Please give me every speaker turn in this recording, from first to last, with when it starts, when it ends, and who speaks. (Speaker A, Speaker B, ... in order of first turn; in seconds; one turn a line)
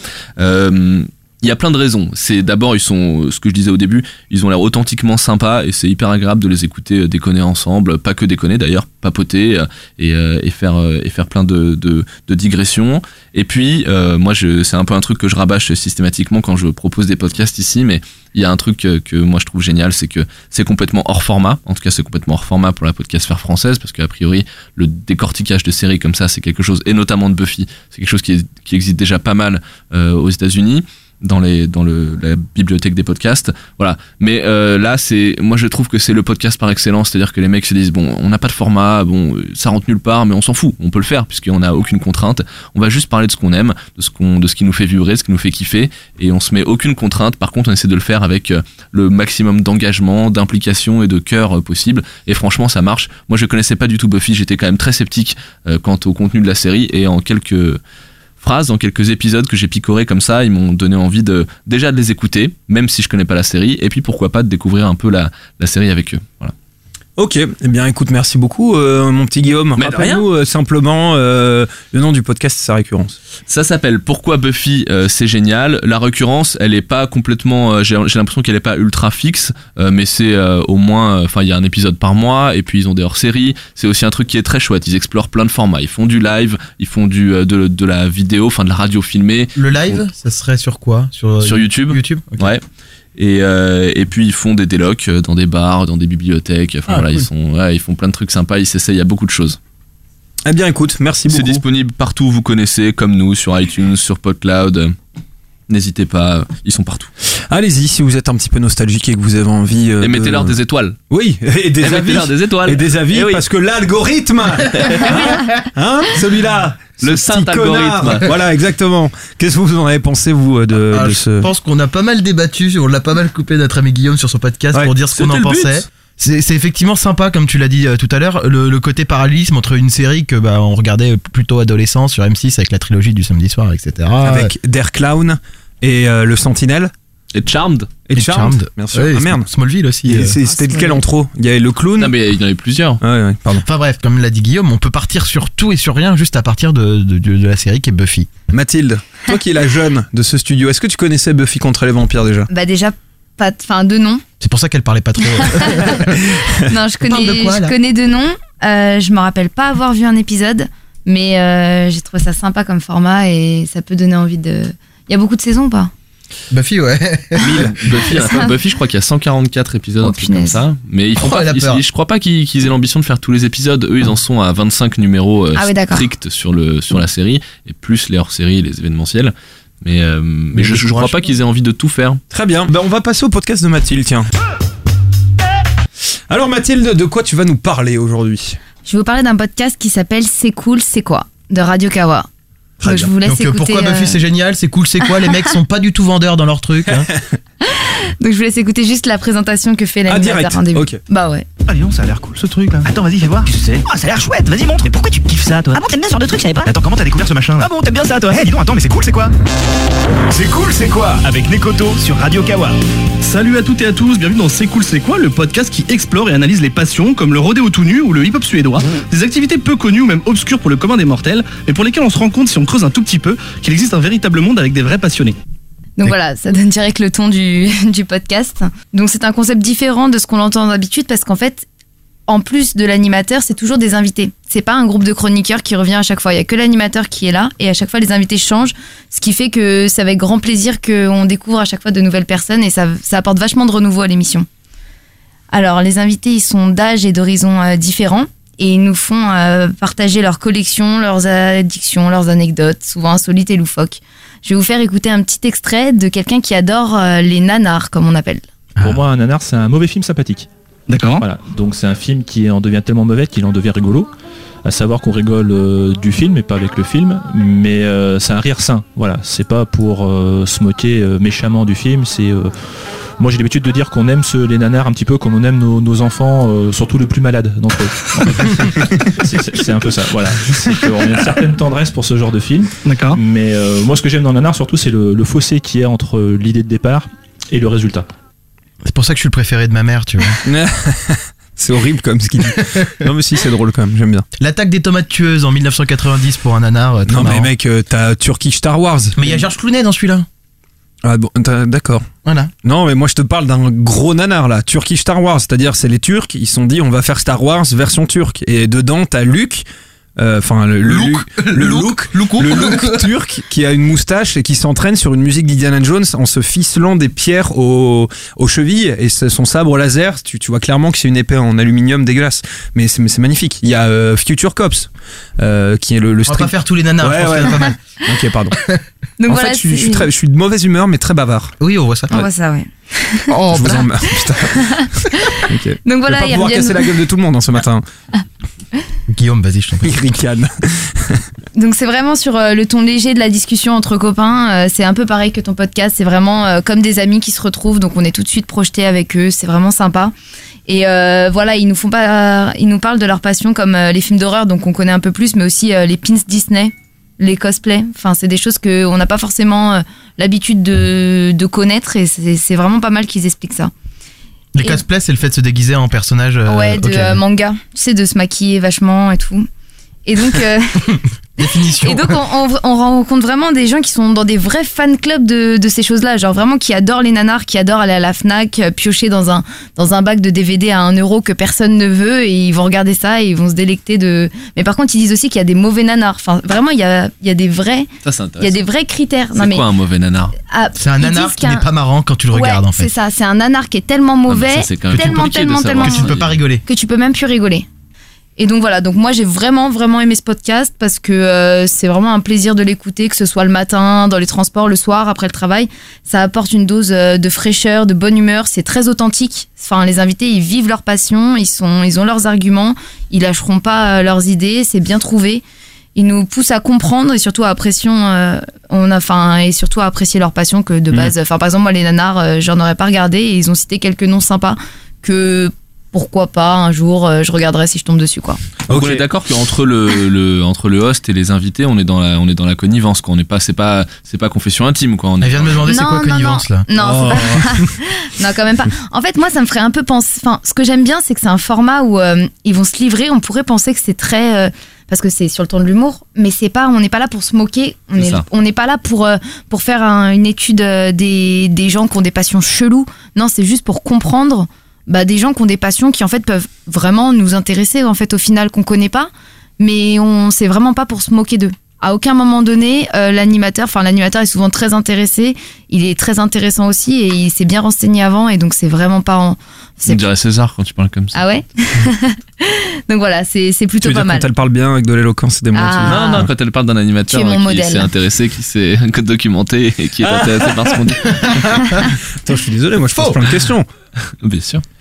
Speaker A: 0.4-57.8
Speaker A: 58.4-66.5
Speaker B: 67.2-73.2
Speaker A: 69.8-70.2
Speaker A: 73.5-90.0
Speaker C: 89.6-92.5
Speaker A: 91.4-92.6
Speaker A: 93.2-99.6
Speaker C: 96.9-97.2
Speaker B: 100.5-101.6
Speaker A: 101.3-104.9
Speaker A: 105.7-107.1
Speaker B: 107.5-110.6
Speaker A: 110.0-111.0
Speaker B: 111.1-121.5
Speaker A: 111.8-113.4
Speaker A: 114.8-115.4
Speaker A: 117.0-118.3
Speaker C: 120.9-134.5
Speaker A: 125.1-125.8
Speaker B: 134.2-136.9
Speaker A: 137.3-137.9
Speaker B: 138.1-139.5
Speaker C: 138.2-140.3
Speaker B: 140.1-142.1
Speaker D: 140.5-141.0
Speaker A: 142.0-143.0
Speaker B: 143.0-143.6
Speaker C: 143.6-148.3
Speaker B: 148.5-152.5
Speaker D: 152.5-154.2
Speaker C: 154.4-157.8
Speaker D: 156.7-165.9
Speaker C: 166.5-167.7
Speaker A: 167.4-182.2
Speaker D: 168.1-168.6
Speaker D: 170.0-170.6
Speaker C: 171.2-171.8
Speaker D: 175.6-176.1
Speaker C: 180.5-181.2
Speaker B: 182.3-184.2
Speaker B: 186.3-188.6
Speaker D: 188.8-192.3
Speaker D: 192.8-194.2
Speaker C: 192.9-197.1
Speaker B: 196.9-197.2
Speaker D: 197.6-201.5
Speaker B: 200.1-201.0
Speaker E: 201.7-202.9
Speaker F: 202.8-209.3
Speaker E: 210.3-211.3
Speaker F: 211.3-212.7
Speaker E: 213.2-225.4
Speaker D: 226.0-231.7
Speaker D: 232.3-244.5
Speaker D: 245.5-258.4
Speaker G: 258.8-260.5
Speaker E: 260.9-261.2
Speaker G: 261.2-264.1
Speaker G: 264.6-272.5
Speaker G: 273.2-288.1
Speaker E: 282.9-283.2
Speaker C: 288.9-290.4
Speaker B: 290.4-294.3
Speaker C: 294.4-297.5
Speaker B: 297.1-299.5
Speaker C: 299.2-300.3
Speaker B: 301.0-302.1
Speaker C: 302.2-302.5
Speaker B: 302.6-309.6
Speaker B: 310.2-328.6
Speaker C: 310.9-313.1
Speaker C: 326.3-327.8
Speaker D: 329.2-330.1
Speaker B: 329.3-331.6
Speaker C: 331.6-332.1
Speaker D: 332.1-333.3
Speaker C: 333.3-333.9
Speaker B: 333.5-337.8
Speaker D: 335.9-336.9
Speaker C: 339.1-340.0
Speaker B: 339.8-341.2
Speaker D: 341.6-350.1
Speaker D: 350.7-363.7
Speaker C: 364.6-367.2
Speaker D: 366.5-369.5
Speaker D: 370.1-370.9
Speaker C: 371.4-372.2
Speaker D: 371.8-387.9
Speaker A: 388.0-388.6
Speaker D: 388.4-389.6
Speaker A: 389.4-390.4
Speaker D: 390.5-391.7
Speaker C: 390.8-392.9
Speaker D: 392.3-396.1
Speaker A: 394.3-396.4
Speaker C: 394.9-396.6
Speaker D: 396.7-397.7
Speaker D: 398.4-415.4
Speaker D: 415.9-428.4
Speaker B: 428.7-429.1
Speaker A: 428.7-435.6
Speaker C: 435.2-437.3
Speaker D: 435.7-470.1
Speaker B: 436.7-437.7
Speaker A: 448.0-448.2
Speaker A: 469.9-471.2
Speaker D: 471.1-474.3
Speaker B: 473.8-476.3
Speaker D: 475.5-476.3
Speaker A: 475.9-481.5
Speaker D: 477.1-477.9
Speaker B: 480.0-483.7
Speaker C: 481.2-481.8
Speaker C: 482.9-483.2
Speaker A: 484.2-484.6